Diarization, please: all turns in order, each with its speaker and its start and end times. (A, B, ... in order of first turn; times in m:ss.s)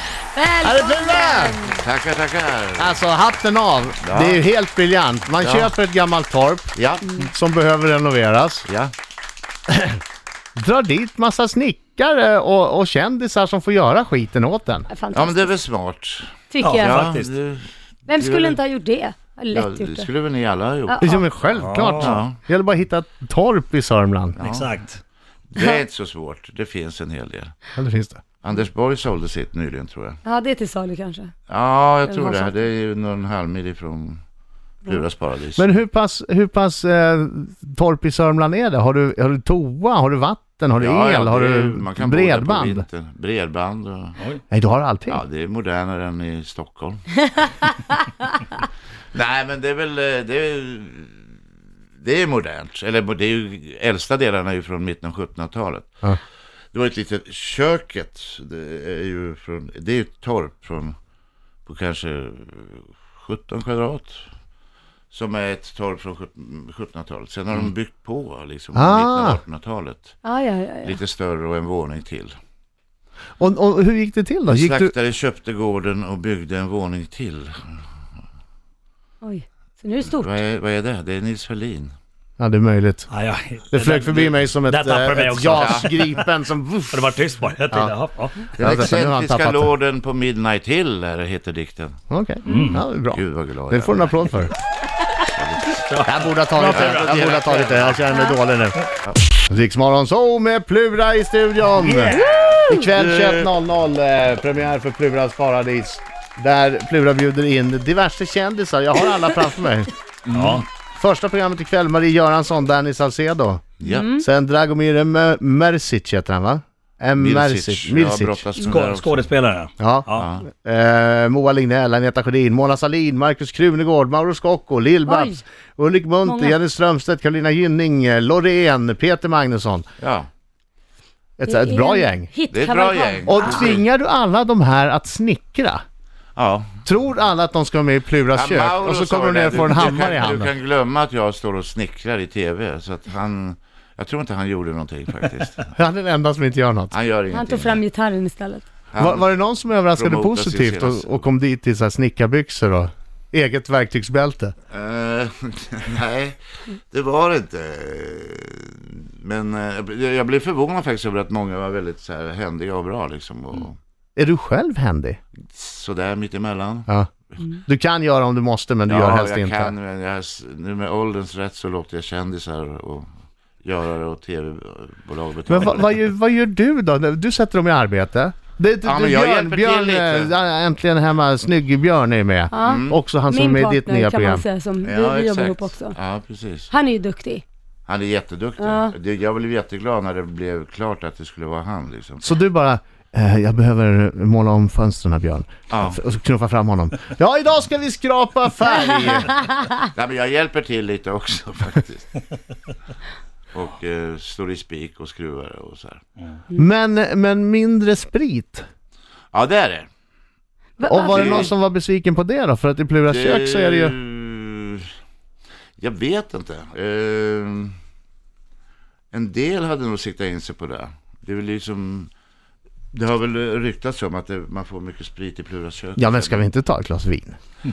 0:00.3-0:01.8 A
0:00.6-0:01.6 B
0:01.8-0:03.0 C
0:02.8-0:06.8 B
0:04.0-0:04.4 C
0:05.4-0:05.7 C
0:06.8-0:07.1 C
0:07.3-0:08.7 B
0:08.6-0:08.9 C
0:09.7-0:10.0 B
0:10.6-0:14.9 B
0:14.9-0:15.6 A
0:15.1-0:18.6 C
0:16.5-0:17.1 A
0:16.6-0:17.3 D
0:18.1-0:20.1 A
0:19.5-0:21.1 C
0:20.9-0:21.3 A
0:21.0-0:24.4 B
0:21.5-0:22.2 D
0:22.0-0:22.4 C
0:24.4-0:24.7 C
0:24.4-0:25.0 D
0:25.5-0:27.6 C
0:27.8-0:28.2 B
0:28.4-0:30.2 C
0:30.2-0:31.3 A
0:31.5-0:34.2 C
0:32.1-0:32.6 A
0:34.9-0:35.8 C
0:35.6-0:42.9 B
0:40.8-0:44.2 C
0:44.5-0:45.2 B
0:45.1-0:47.4 C
0:49.1-0:51.3 C
0:52.0-0:56.0 C
0:56.7-1:01.0 C
1:01.7-1:04.2 C
1:05.1-1:10.2 C
1:08.8-1:09.4 B
1:10.2-1:11.0 A
1:10.8-1:12.4 C
1:13.4-1:14.9 B
1:14.5-1:17.8 C
1:19.2-1:20.4 A
1:20.0-1:21.9 C
1:22.4-1:23.1 B
1:23.1-1:26.3 D
1:23.7-1:27.2 B
1:25.5-1:25.9 C
1:26.9-1:28.5 D
1:27.7-1:28.0 B
1:28.5-1:29.7 B
1:28.6-1:32.0 C
1:32.1-1:34.5 B
1:32.5-1:32.7 A
1:32.5-1:32.9 D
1:33.1-1:34.5 C
1:35.3-1:35.8 C
1:35.7-1:38.0 D
1:36.0-1:38.8 B
1:36.5-1:38.0 C
1:39.4-1:49.9 B
1:41.8-1:42.7 D
1:42.1-1:42.8 A
1:43.0-1:43.5 C
1:50.3-1:50.6 C
1:50.3-1:50.7 D
1:50.9-1:53.7 B
1:53.8-1:54.1 C
1:53.8-1:54.2 A
1:54.2-1:58.4 B
1:57.2-1:59.3 C
1:58.6-2:00.3 D
1:59.8-2:09.8 B
2:00.2-2:00.5 C
2:05.1-2:05.4 A
2:06.2-2:06.6 A
2:10.0-2:10.3 C
2:11.4-2:12.3 B
2:11.4-2:13.8 A
2:12.5-2:13.8 C
2:13.2-2:15.8 B
2:16.4-2:16.8 C
2:16.8-2:20.5 B
2:18.3-2:25.7 C
2:25.8-2:26.9 B
2:26.9-2:27.8 C
2:27.3-2:28.6 A
2:28.9-2:29.3 C
2:29.0-2:34.5 B
2:29.9-2:31.2 C
2:34.7-2:43.8 C
2:44.2-2:45.2 B
2:45.5-2:47.4 C
2:47.6-2:49.7 B
2:48.9-2:53.1 C
2:53.6-2:56.0 C
2:55.5-3:04.4 B
2:58.8-3:00.3 C
3:02.5-3:06.0 A
3:02.6-3:03.0 C
3:04.8-3:06.7 C
3:06.7-3:07.4 A
3:07.9-3:12.3 C
3:08.6-3:08.9 A
3:12.2-3:19.4 B
3:15.7-3:16.0 C
3:19.9-3:22.2 C
3:23.5-3:26.0 C
3:26.6-3:28.6 B
3:29.3-3:29.9 C
3:30.8-3:31.5 A
3:30.8-3:34.0 B
3:31.0-3:31.5 C
3:33.1-3:34.9 C
3:35.8-3:37.7 C
3:39.1-3:42.1 C
3:42.9-3:46.5 C
3:46.0-3:47.4 B